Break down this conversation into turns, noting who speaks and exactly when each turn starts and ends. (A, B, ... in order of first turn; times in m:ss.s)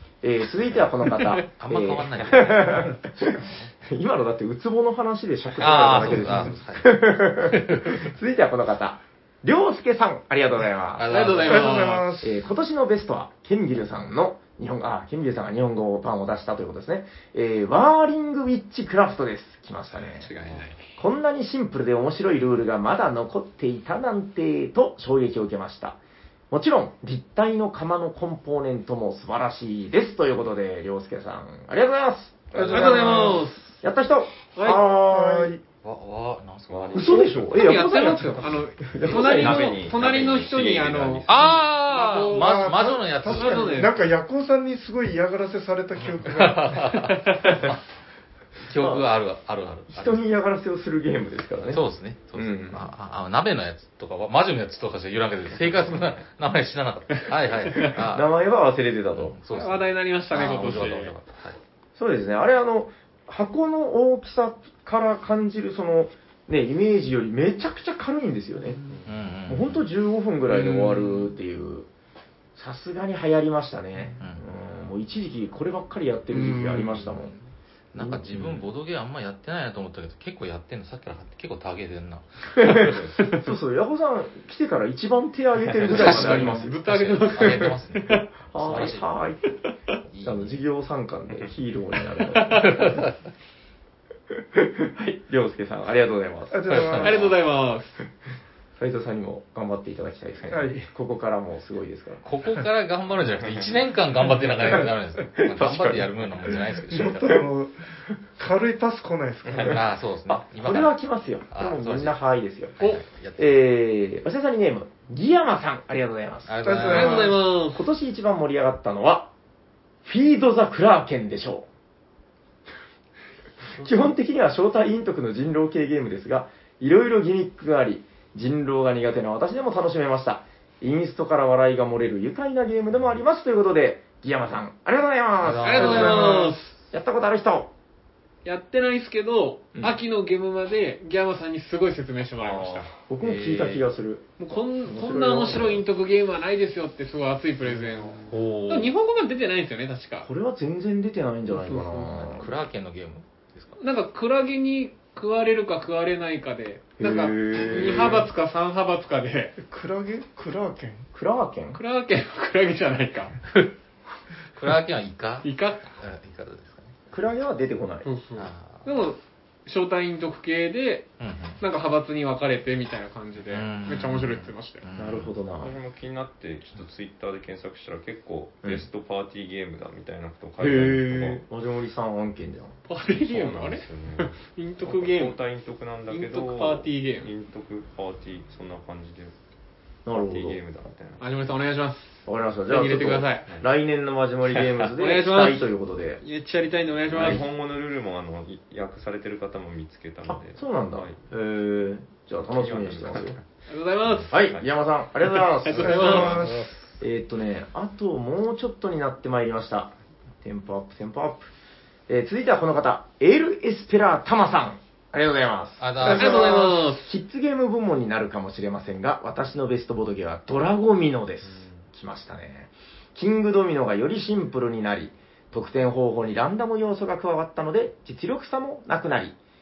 0:00.2-0:11.5 A
0:01.5-0:03.7 B
0:05.5-0:07.0 B
0:07.5-0:07.9 B
0:11.0-0:12.0 B
0:11.1-0:12.1 C
0:11.4-0:12.3 D
0:12.2-0:20.3 A
0:20.2-0:20.7 E
0:20.4-0:20.8 C
0:21.0-0:26.0 A
0:26.5-0:35.5 A
0:32.6-0:33.4 D
0:32.6-0:33.3 B
0:32.6-0:33.7 C
0:34.6-0:34.8 C
0:35.0-0:35.6 D
0:35.8-0:37.4 B
0:36.7-0:37.7 E
0:36.9-0:39.8 A
0:37.5-0:42.7 C
0:39.0-0:41.7 E
0:41.3-0:43.9 B
0:42.3-0:47.0 D
0:43.2-0:44.0 C
0:46.2-0:47.8 B
0:48.6-0:50.2 B
0:48.8-0:49.1 A
0:49.9-0:51.8 A
0:51.7-0:58.3 B
0:52.3-0:52.9 A
0:58.0-0:59.4 A
0:59.1-1:01.6 B
0:59.5-1:01.1 C
1:02.0-1:08.8 A
1:08.9-1:09.2 E
1:09.0-1:09.9 B
1:09.5-1:11.9 A
1:10.5-1:11.3 C
1:12.6-1:17.3 A
1:16.3-1:17.1 C
1:17.9-1:22.9 B
1:22.6-1:26.8 A
1:22.7-1:23.2 E
1:25.6-1:26.3 E
1:25.8-1:29.1 B
1:26.0-1:28.3 C
1:27.4-1:27.7 A
1:28.4-1:29.6 A
1:30.1-1:30.6 B
1:30.2-1:33.0 A
1:32.3-1:32.7 C
1:32.6-1:33.1 B
1:34.5-1:37.4 A
1:36.5-1:37.3 D
1:36.7-1:37.2 B
1:36.9-1:37.9 C
1:38.8-1:42.2 A
1:40.5-1:40.9 D
1:42.2-1:47.4 B
1:45.4-1:46.1 A
1:46.9-1:47.8 D
1:48.4-1:49.8 D
1:49.6-1:51.0 B
1:50.3-1:52.8 A
1:51.5-1:52.2 B
1:52.8-1:53.5 B
1:53.4-1:56.6 A
1:56.5-1:57.4 B
1:56.6-1:57.4 D
1:56.8-1:57.8 C
1:57.7-1:59.3 A
2:00.0-2:01.7 A
2:03.7-2:17.7 A
2:15.4-2:16.3 B
2:15.6-2:16.7 C
2:18.4-2:22.9 C
2:23.1-2:25.8 A
2:23.2-2:23.8 B
2:24.4-2:30.3 C
2:28.3-2:28.9 B
2:30.2-2:32.5 A
2:31.8-2:33.8 B
2:33.8-2:39.6 C
2:37.0-2:38.3 A
2:39.6-2:41.1 D
2:41.1-2:41.8 A
2:41.7-2:43.4 C
2:44.6-2:46.9 B
2:45.4-2:45.9 C
2:47.1-2:48.1 A
2:48.0-2:51.1 C
2:48.4-2:48.9 B
2:51.2-2:51.6 B
2:51.6-2:54.8 C
2:53.5-2:55.3 B
2:55.0-2:55.7 A
2:55.6-3:01.4 E
3:00.6-3:02.7 A
3:02.9-3:05.4 C
3:03.2-3:09.3 E
3:06.1-3:07.3 C
3:10.0-3:10.6 A
3:10.1-3:11.2 E
3:11.2-3:13.5 C
3:12.2-3:16.2 A
3:15.0-3:15.7 C
3:16.2-3:17.4 C
3:17.1-3:21.2 E
3:20.3-3:23.4 A
3:22.4-3:23.4 E
3:23.7-3:24.3 C
3:24.3-3:26.4 A
3:24.3-3:24.6 E
3:25.4-3:26.5 C
3:25.8-3:26.7 D
3:26.2-3:26.7 B
3:27.0-3:31.5 A
3:32.1-3:49.4 A
3:35.8-3:36.6 B
3:36.0-3:37.1 C
3:41.5-3:41.8 E